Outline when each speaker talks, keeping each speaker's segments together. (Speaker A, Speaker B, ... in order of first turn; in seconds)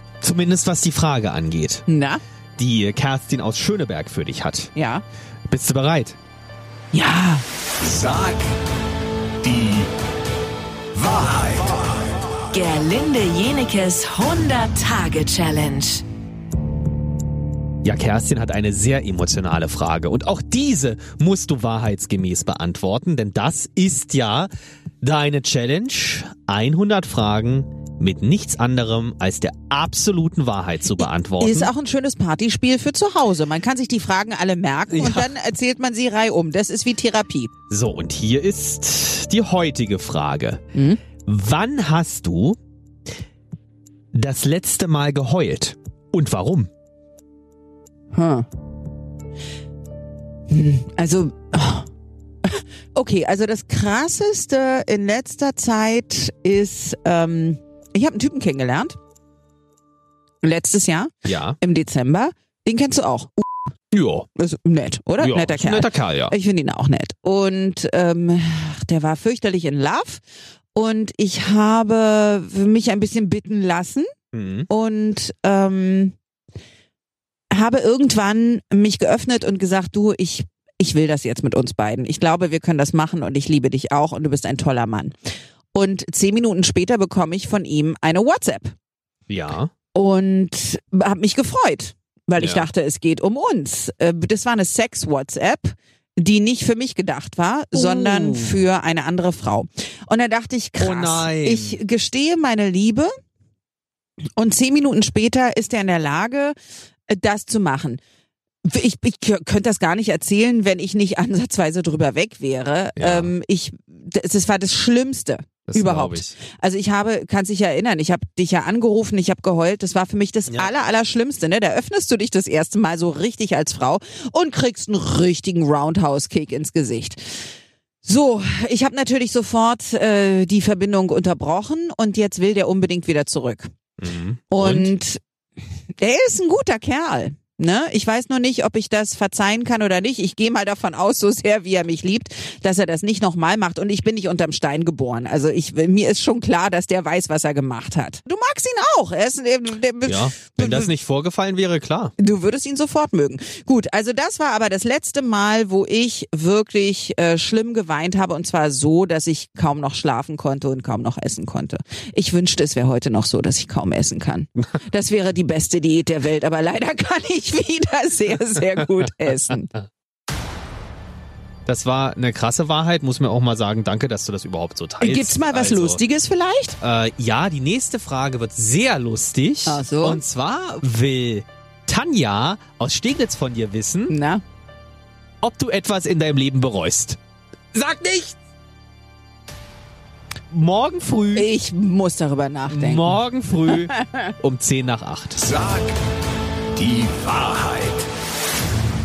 Speaker A: 0.2-1.8, 2.6-4.7, 5.5-6.2, 17.8-24.5, 25.0-31.7, 34.9-35.3, 37.7-40.6, 41.2-42.6, 44.1-46.7, 61.2-61.6, 63.9-64.3, 65.2-66.3, 74.3-74.7, 89.3-89.7, 92.4-92.7, 97.7-98.6, 100.8-101.8, 113.0-113.3, 115.7-116.3, 134.0-134.9, 150.0-152.1, 171.7-176.0, 176.8-184.1, 185.4-187.2, 187.7-188.4, 190.5-191.5, 192.7-195.5
Speaker B: 1.9-2.2, 4.7-5.0, 6.9-7.4, 31.0-37.5, 40.7-41.0, 48.1-48.5, 50.5-51.9, 52.4-59.0, 60.4-63.6, 64.3-70.2, 70.7-74.1, 74.7-76.1, 77.5-85.1, 85.7-88.7, 89.9-103.1, 104.4-106.5, 107.1-108.0, 108.6-127.4, 128.0-133.7, 134.5-135.2, 136.0-150.9, 152.2-169.7, 175.0-176.8, 179.7-180.2, 184.1-184.4, 191.3-194.3
Speaker C: 7.9-8.4, 9.4-9.8, 11.0-11.8, 196.8-198.0
Speaker D: 12.5-16.0